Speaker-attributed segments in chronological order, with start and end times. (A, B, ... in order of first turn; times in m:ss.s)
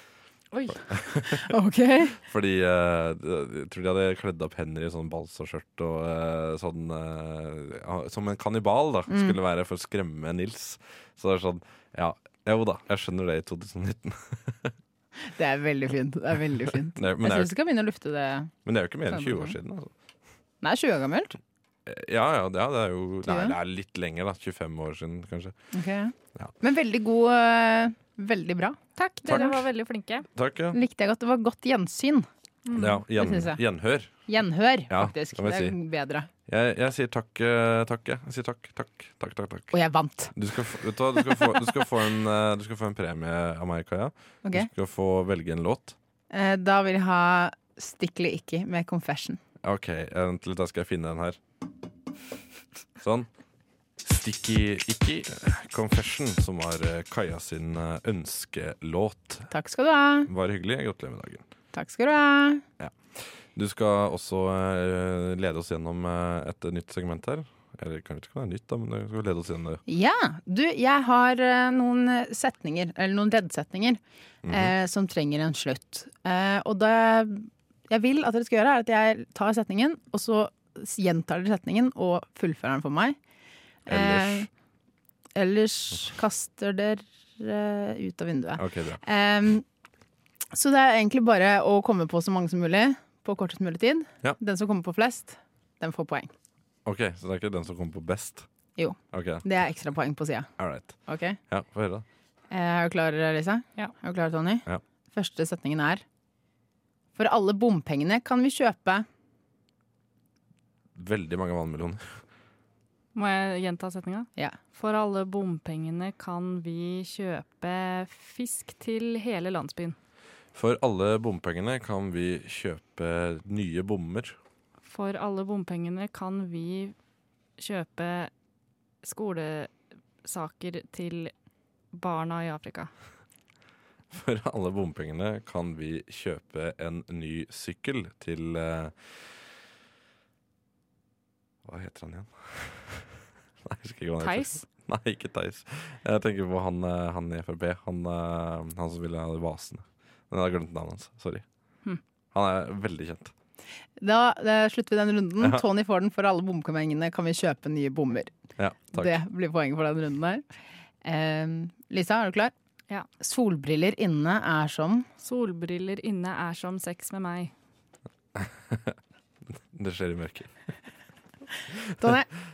0:00.5-0:00.8 A
0:00.9-0:01.5 B
0:01.4-0:02.1 C
0:02.1-0:14.7 B
0:09.1-0:09.4 C
0:15.2-0:18.5 C
0:17.0-0:17.5 B
0:18.6-0:19.9 B
0:19.1-0:19.6 C
0:20.6-0:21.4 C
0:21.9-0:25.6 B
0:23.2-0:23.6 C
0:25.7-0:29.6 C
0:29.0-0:30.3 A
0:30.4-0:30.8 B
0:30.7-0:32.3 C
0:32.7-0:33.0 A
0:32.8-0:34.1 B
0:33.1-0:33.6 C
0:34.3-0:36.3 C
0:34.9-0:35.8 B
0:36.5-0:39.7 B
0:39.7-0:40.3 C
0:40.3-0:46.0 B
0:41.1-0:41.7 C
0:44.4-0:44.7 C
0:46.3-0:49.4 C
0:49.6-0:51.4 B
0:53.0-0:53.3 B
0:54.0-0:59.5 B
0:59.5-1:00.3 C
1:00.3-1:01.4 B
1:01.7-1:02.6 C
1:02.8-1:09.8 B
1:09.9-1:23.2 C
1:14.4-1:14.7 B
1:23.9-1:24.5 C
1:23.9-1:24.5 B
1:25.4-1:29.6 C
1:28.6-1:29.0 B
1:30.5-1:36.3 C
1:36.8-1:38.5 B
1:38.8-1:40.5 C
1:39.1-1:39.4 B
1:40.6-1:41.0 B
1:41.1-1:41.4 C
1:41.5-1:42.0 B
1:42.5-1:46.0 C
1:47.2-1:49.1 C
1:51.0-1:52.2 B
1:53.1-2:00.0 A
2:00.5-2:04.4 B
2:04.8-2:07.0 A
2:07.6-2:08.3 A
2:09.0-2:09.7 A
2:10.2-2:11.3 A
2:11.9-2:12.9 A
2:14.1-2:19.0 B
2:21.6-2:31.4 B
2:24.2-2:24.6 A
2:32.3-2:33.3 B
2:34.0-2:38.3 C
2:35.4-2:35.6 B
2:38.6-2:39.2 B
2:38.9-2:40.4 C
2:41.0-2:42.5 C
2:43.2-2:45.1 C
2:45.2-2:47.5 A
2:48.4-2:50.6 B
2:51.7-2:52.1 B
2:52.0-2:52.3 C